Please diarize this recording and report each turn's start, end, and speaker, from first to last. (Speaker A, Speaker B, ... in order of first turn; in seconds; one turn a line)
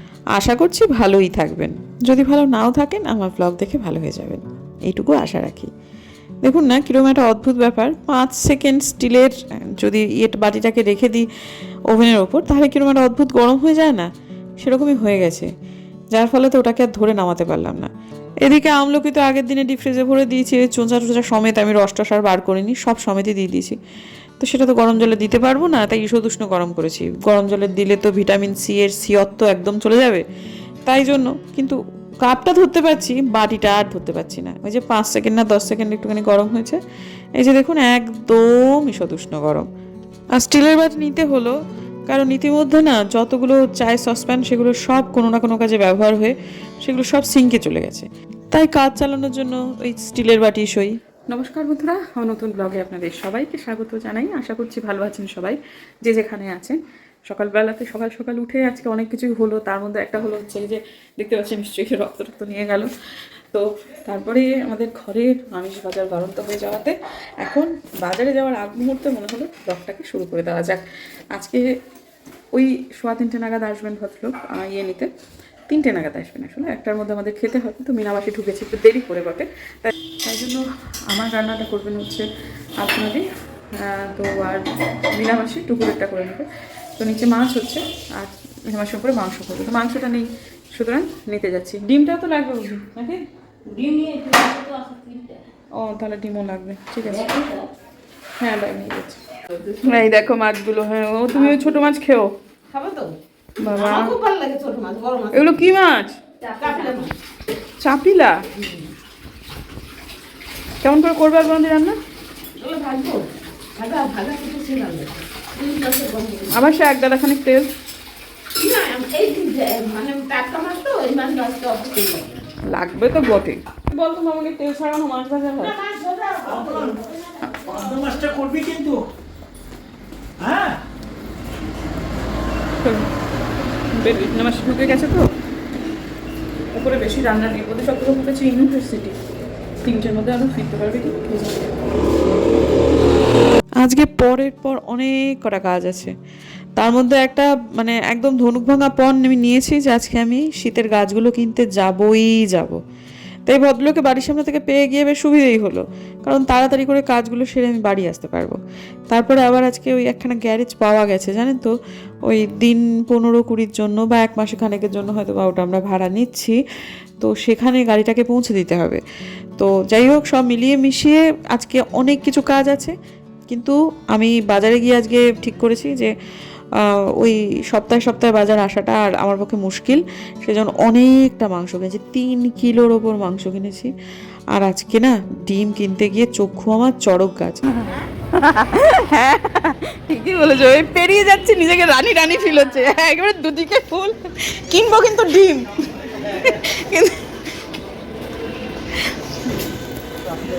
Speaker A: 0.4-5.7
Speaker A: 6.4-11.3
Speaker A: 11.9-14.1
Speaker A: 14.6-15.5
Speaker A: 16.1-17.9
Speaker A: 18.4-23.8
Speaker A: 24.4-30.2
Speaker A: 30.9-36.8
Speaker A: 37.4-39.7
Speaker A: 40.4-41.5
Speaker A: 42.1-62.9
Speaker A: 63.5-71.7
Speaker A: 72.5-75.1
Speaker A: 75.7-82.2
Speaker A: 82.8-83.2
Speaker A: 83.8-86.5
Speaker A: 87.0-93.2
Speaker B: 93.8-95.2
Speaker A: 95.8-97.3
Speaker A: 98.4-99.2
Speaker B: 99.6-100.0
Speaker A: 99.9-102.3
Speaker B: 101.3-101.8
Speaker B: 102.7-105.7
Speaker A: 103.6-104.1
Speaker A: 105.3-106.1
Speaker B: 106.6-107.1
Speaker A: 107.8-108.4
Speaker B: 108.6-108.9
Speaker A: 110.8-112.0
Speaker B: 112.6-116.6
Speaker A: 116.5-117.7
Speaker B: 118.6-122.5
Speaker A: 122.7-125.7
Speaker B: 125.6-127.0
Speaker C: 126.5-126.8
Speaker C: 127.7-129.0
Speaker C: 130.4-130.7
Speaker A: 133.9-135.2
Speaker A: 136.7-139.2
Speaker A: 139.8-141.8
Speaker A: 143.8-146.1
Speaker A: 146.8-152.8
Speaker A: 153.5-158.6
Speaker A: 159.1-161.7
Speaker A: 162.2-166.6
Speaker A: 167.2-169.0
Speaker A: 169.6-172.9
Speaker A: 173.5-176.1
Speaker A: 176.8-183.9
Speaker A: 184.5-187.6
Speaker A: 188.6-194.2
Speaker A: 194.7-195.6
Speaker A: 196.5-197.1